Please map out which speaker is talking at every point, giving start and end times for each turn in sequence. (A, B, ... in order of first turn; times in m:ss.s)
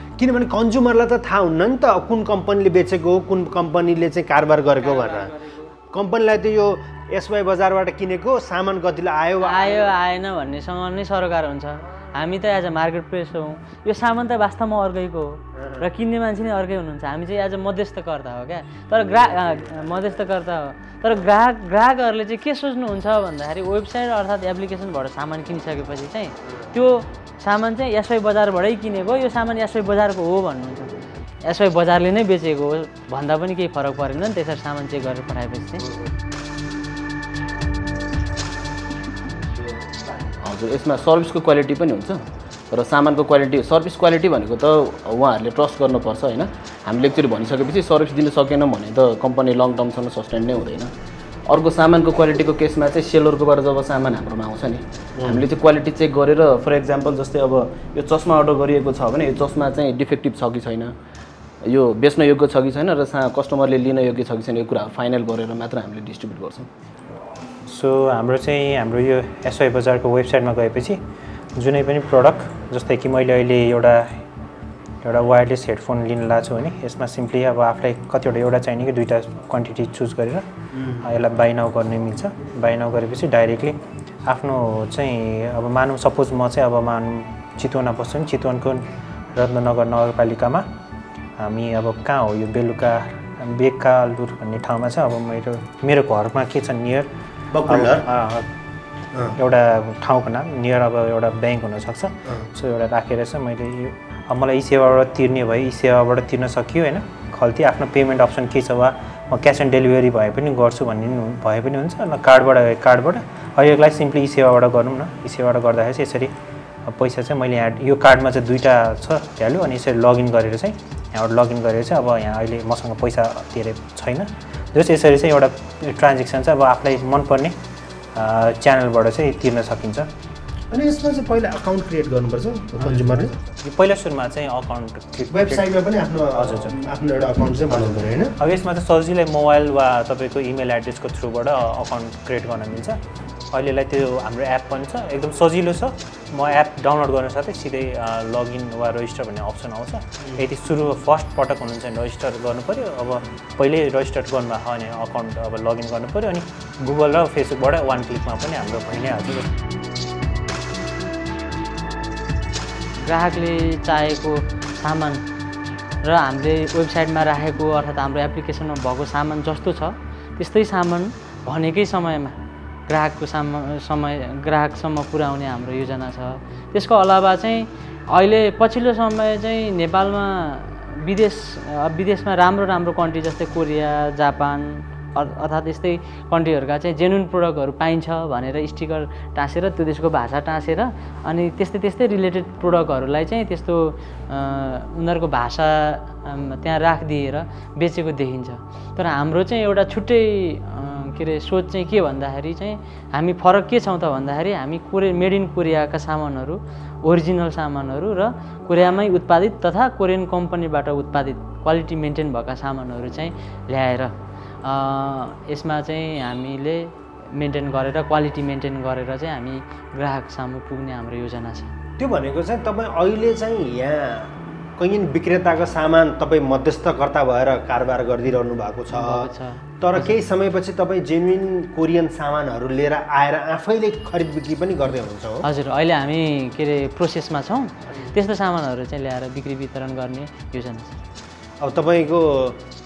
0:00.2-0:05.4 A
0:04.8-0:05.7 B
0:05.9-0:09.9 A
0:09.4-0:30.9 B
0:15.6-0:15.8 A
0:19.2-0:19.9 A
0:31.4-0:35.9 B
0:40.4-0:50.9 C
0:51.5-1:01.0 C
0:55.2-0:55.4 A
1:01.6-1:06.7 C
1:07.7-1:11.0 D
1:11.6-1:14.2 D
1:15.0-1:30.7 D
1:31.4-1:37.1 D
1:37.5-1:38.0 A
1:37.7-1:38.5 D
1:39.4-1:56.3 D
1:56.9-2:07.6 D
2:08.2-2:10.1 D
2:10.7-2:13.4 A
2:13.5-2:15.7 D
2:15.3-2:18.3 A
2:16.3-2:16.8 D
2:18.4-2:23.0 D
2:23.5-2:39.5 D
2:43.0-2:45.2 B
2:46.0-3:41.8 B
3:42.0-3:49.3 A
3:48.9-3:50.2 B
3:49.8-3:55.4 A
3:55.4-4:01.0 B
4:01.6-4:02.6 A